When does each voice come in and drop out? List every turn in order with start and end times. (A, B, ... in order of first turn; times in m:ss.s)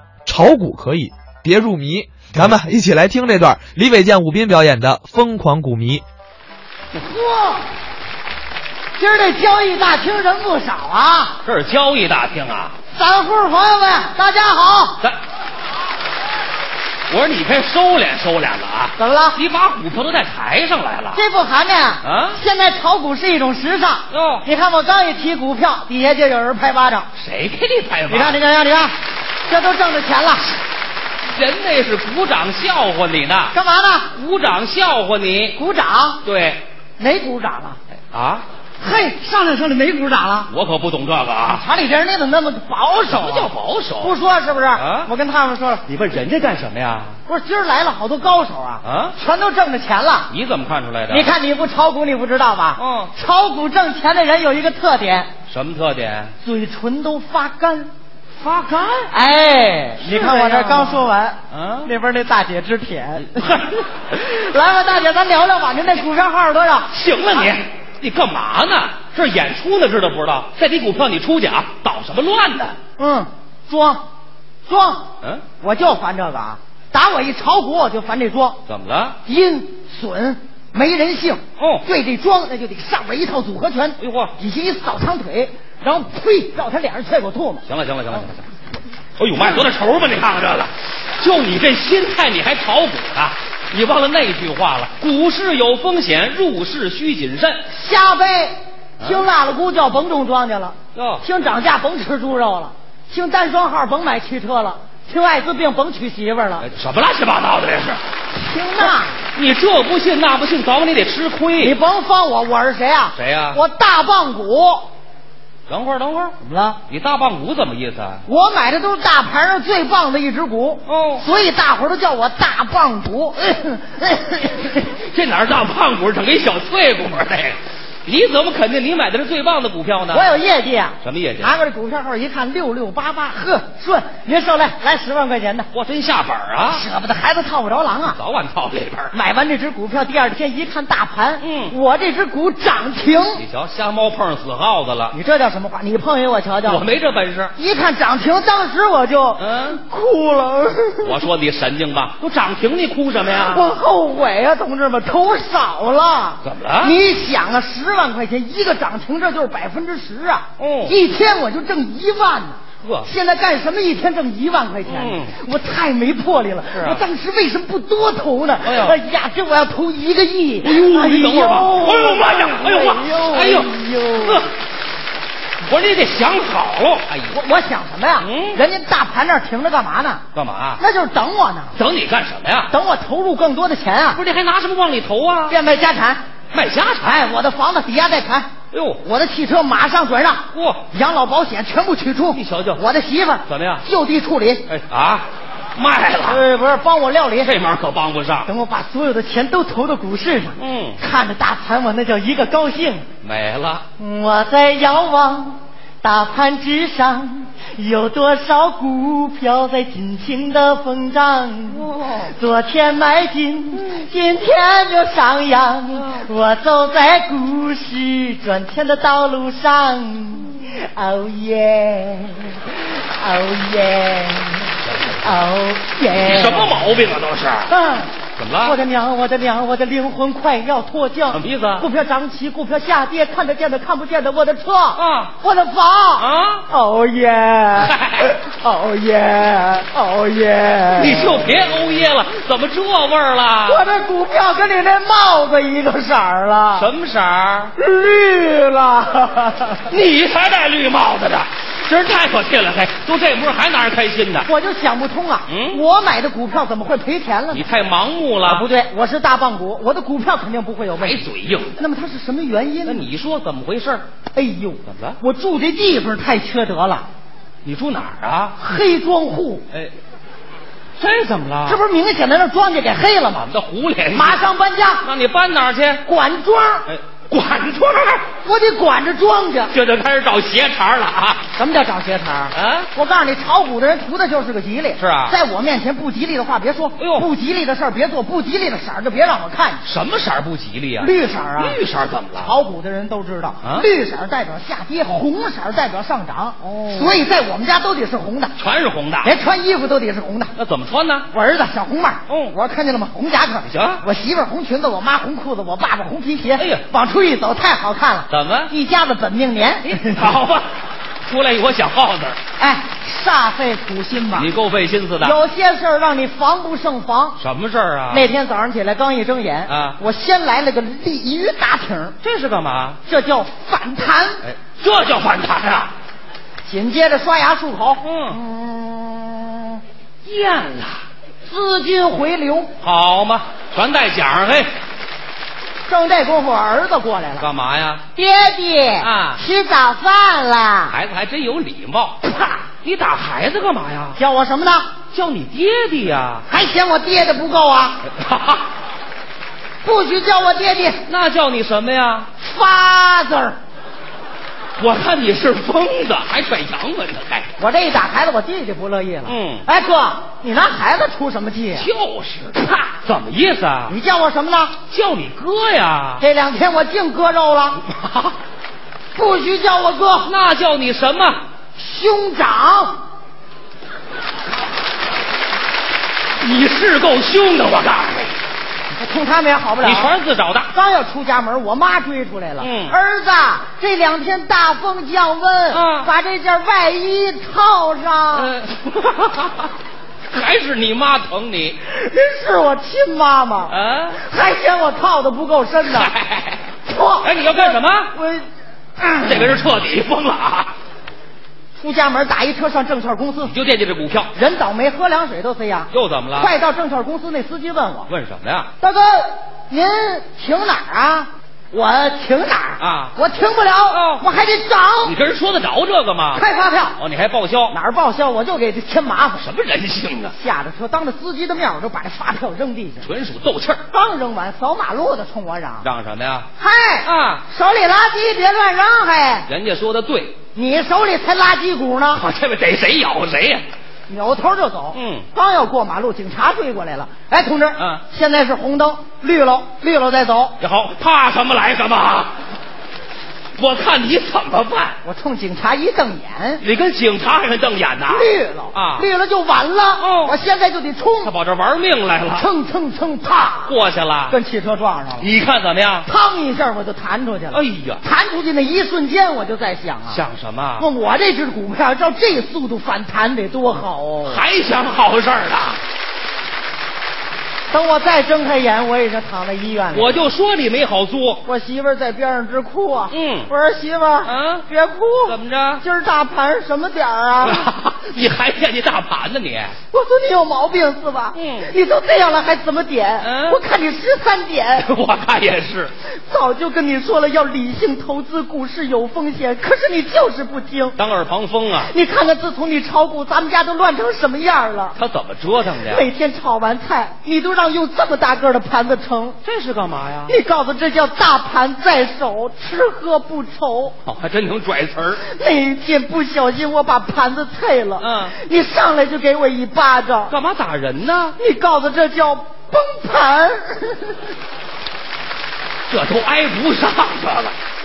0:00.2-0:06.0 A
0:06.9-0:07.6 B
0:09.0-0:11.4 B
0:11.4-0:12.7 C
0:12.9-0:15.0 B
0:17.1-0:21.2 C
0:19.0-0:19.4 B
0:21.1-0:27.1 B
0:22.0-0:22.4 C
0:24.1-0:24.4 C
0:27.2-0:28.4 C
0:28.1-0:28.9 B
0:29.5-0:30.5 B
0:31.3-0:33.5 C
0:33.5-0:34.1 B
0:34.1-0:35.6 C
0:35.5-0:36.2 B
0:36.2-0:36.6 C
0:37.0-0:37.8 B
0:38.1-0:38.4 C
0:38.8-0:40.5 B
0:40.5-0:41.6 C
0:41.4-0:45.8 B
0:43.1-0:44.1 C
0:44.7-0:45.1 C
0:45.8-0:47.2 C
0:47.3-0:50.3 B
0:48.8-0:49.1 C
0:50.3-0:51.3 C
0:51.1-0:55.3 B
0:52.8-0:53.1 C
0:55.5-0:56.3 C
0:56.4-0:57.9 B
0:58.4-0:59.1 C
0:59.1-1:06.9 B
1:00.0-1:01.9 C
1:06.9-1:12.8 C
1:13.0-1:14.0 B
1:14.7-1:15.1 B
1:15.6-1:18.6 B
1:18.7-1:19.2 C
1:19.2-1:27.6 B
1:21.6-1:21.8 C
1:24.0-1:24.3 C
1:27.6-1:28.4 C
1:29.2-1:37.6 C
1:29.4-1:29.6 B
1:37.7-1:46.7 B
1:40.9-1:41.2 C
1:46.6-1:48.0 C
1:48.3-1:49.2 B
1:48.8-1:51.8 C
1:51.6-1:54.9 B
1:53.1-1:53.6 C
1:55.7-1:56.3 C
1:56.4-1:56.8 B
1:56.9-1:58.2 C
1:58.2-2:04.8 B
2:00.8-2:01.2 C
2:04.8-2:10.3 C
2:10.1-2:15.7 B
2:11.0-2:11.6 C
2:15.7-2:16.8 C
2:16.7-2:18.2 B
2:18.1-2:19.1 C
2:19.1-2:23.4 B
2:21.4-2:21.7 C
2:23.4-2:25.1 C
2:25.1-2:26.9 B
2:26.6-2:27.5 C
2:27.5-2:31.2 B
2:29.4-2:29.8 C
2:31.0-2:33.6 C
2:33.3-2:54.4 B
2:36.4-2:37.0 C
2:40.6-2:40.9 C
2:42.8-2:43.1 C
2:44.8-2:45.3 C
2:46.7-2:47.0 C
2:48.6-2:49.0 C
2:50.6-2:54.5 C
2:55.6-2:57.3 C
2:57.3-3:00.2 B
2:58.2-2:58.6 C
3:00.3-3:00.8 C
3:00.8-3:01.7 B
3:01.7-3:02.7 C
3:02.7-3:04.2 B
3:04.1-3:05.6 C
3:05.5-3:06.2 B
3:06.5-3:07.1 C
3:07.0-3:08.5 B
3:08.7-3:09.0 C
3:09.0-3:14.6 B
3:10.5-3:10.8 C
3:12.3-3:12.8 C
3:13.4-3:13.8 C
3:14.7-3:16.4 C
3:16.2-3:17.5 B
3:17.4-3:18.5 C
3:18.4-3:23.0 B
3:20.6-3:21.0 C
3:23.2-3:23.8 C
3:24.0-3:42.6 B
3:31.7-3:32.3 C
3:43.2-3:46.8 B
3:44.9-3:45.2 C
3:46.1-3:47.7 C
3:47.7-3:48.1 B
3:48.4-3:48.8 C
3:48.6-4:01.4 B
3:51.3-3:51.9 C
3:55.0-3:55.3 C
3:56.2-3:56.6 C
3:57.8-3:58.3 C
4:00.9-4:03.8 C
4:03.7-4:06.9 B
4:06.7-4:07.7 C
4:07.8-4:09.8 B
4:09.9-4:14.5 C
4:14.4-4:17.6 B
4:15.5-4:15.8 C
4:17.5-4:18.6 C
4:18.4-4:21.2 B
4:21.0-4:21.8 C
4:21.8-4:23.1 B
4:22.8-4:24.0 C
4:24.3-4:27.0 B
4:24.8-4:25.2 C
4:27.6-4:28.6 C
4:28.6-4:29.6 B
4:31.0-4:31.8 C
4:31.6-4:33.5 B
4:33.4-4:34.4 C
4:34.1-4:35.1 B
4:35.0-4:36.0 C
4:36.0-4:36.9 B
4:36.8-4:38.2 C
4:38.4-4:39.7 B
4:39.7-4:41.4 C
4:41.5-4:49.8 B
4:42.5-4:42.9 C
4:45.0-4:45.4 C
4:47.0-4:47.3 C
4:49.8-4:52.5 C
4:51.0-4:51.8 B
4:52.4-4:58.5 B
4:56.6-4:57.2 C
4:58.6-4:59.4 C
4:59.2-5:00.5 B
5:00.6-5:01.3 C
5:01.3-5:10.3 B
5:02.3-5:02.5 C
5:03.6-5:04.0 C
5:06.6-5:06.8 C
5:08.3-5:08.7 C
5:09.8-5:10.6 C
5:11.2-5:12.4 C
5:12.6-5:14.5 B
5:14.3-5:15.4 C
5:15.2-5:17.4 B
5:17.4-5:18.3 C
5:18.1-5:22.2 B
5:19.7-5:20.0 C
5:22.2-5:23.0 C
5:23.0-5:24.4 B
5:24.4-5:25.9 C
5:26.6-5:29.8 B
5:28.0-5:28.4 C
5:30.2-5:31.0 C
5:31.4-5:32.7 B
5:32.8-5:34.7 C
5:35.9-5:37.5 B
5:37.4-5:38.0 C
5:38.1-5:40.9 B
5:39.0-5:39.4 C
5:40.9-5:42.2 C
5:42.8-5:44.2 C
5:44.2-5:44.9 B
5:45.1-5:46.4 C
5:46.5-5:48.0 B
5:48.2-5:48.6 C
5:49.8-5:51.0 B
5:51.0-5:52.3 C
5:52.4-5:53.6 B
5:54.8-5:57.5 C
5:57.6-6:01.9 B
5:59.2-5:59.6 C
6:01.7-6:03.9 C
6:03.9-6:04.7 B
6:04.9-6:06.2 C
6:06.2-6:07.8 B
6:08.0-6:08.3 C
6:09.1-6:10.3 B
6:10.2-6:11.4 C
6:11.8-6:13.0 B
6:16.4-6:18.3 C
6:18.9-6:20.1 B
6:19.8-6:20.7 C
6:20.7-6:28.5 B
6:22.6-6:23.0 C
6:25.7-6:26.1 C
6:28.3-6:29.7 C
6:30.3-6:31.8 C
6:31.8-6:36.1 B
6:33.7-6:34.2 C
6:35.8-6:36.7 C
6:36.8-6:38.4 B
6:37.2-6:38.1 C
6:39.0-6:39.6 B
6:39.2-6:40.7 C
6:41.8-6:43.5 B
6:43.4-6:44.3 C
6:44.3-6:48.1 B
6:45.9-6:46.5 C
6:48.1-6:48.7 C
6:48.8-6:55.2 B
6:52.8-6:53.1 C
6:53.9-6:54.2 C
6:55.0-6:56.4 C
6:56.3-6:57.0 B
6:57.0-6:57.7 C
6:57.7-6:59.5 B
6:59.4-7:00.3 C
7:00.3-7:03.0 B
7:03.0-7:03.8 C
7:03.9-7:05.9 B
7:05.8-7:06.5 C
7:06.6-7:09.5 B
7:07.0-7:07.4 C
7:09.5-7:10.4 C
7:10.5-7:12.2 B
7:12.1-7:13.6 C
7:14.1-7:20.6 B
7:14.9-7:15.2 C
7:20.6-7:22.3 C
7:23.6-7:25.0 C
7:25.0-7:26.6 B
7:26.6-7:29.1 C
7:28.1-7:31.3 B
7:30.0-7:30.3 C
7:31.2-7:32.5 C
7:32.3-7:33.7 B
7:33.6-7:34.4 C
7:34.3-7:35.3 B
7:35.2-7:36.1 C
7:36.0-7:40.2 B
7:37.5-7:38.0 C
7:40.1-7:40.9 C
7:40.8-7:44.4 B
7:44.2-7:45.8 C
7:47.7-7:50.2 B
7:49.9-7:51.4 C
7:51.4-7:57.6 B
7:53.1-7:53.5 C
7:54.2-7:54.6 C
7:55.2-7:55.8 C
7:57.4-7:59.7 C
7:59.9-8:04.9 B
8:01.3-8:01.7 C
8:03.2-8:03.6 C
8:04.8-8:05.9 C
8:06.1-8:11.0 B
8:11.0-8:11.9 C
8:11.8-8:15.0 B
8:14.9-8:16.1 C
8:15.9-8:19.4 B
8:19.4-8:20.4 C
8:20.3-8:24.0 B
8:24.0-8:25.2 C
8:25.2-8:30.3 B
8:28.0-8:28.3 C
8:30.3-8:31.4 C
8:31.4-8:34.2 B
8:35.9-8:37.5 C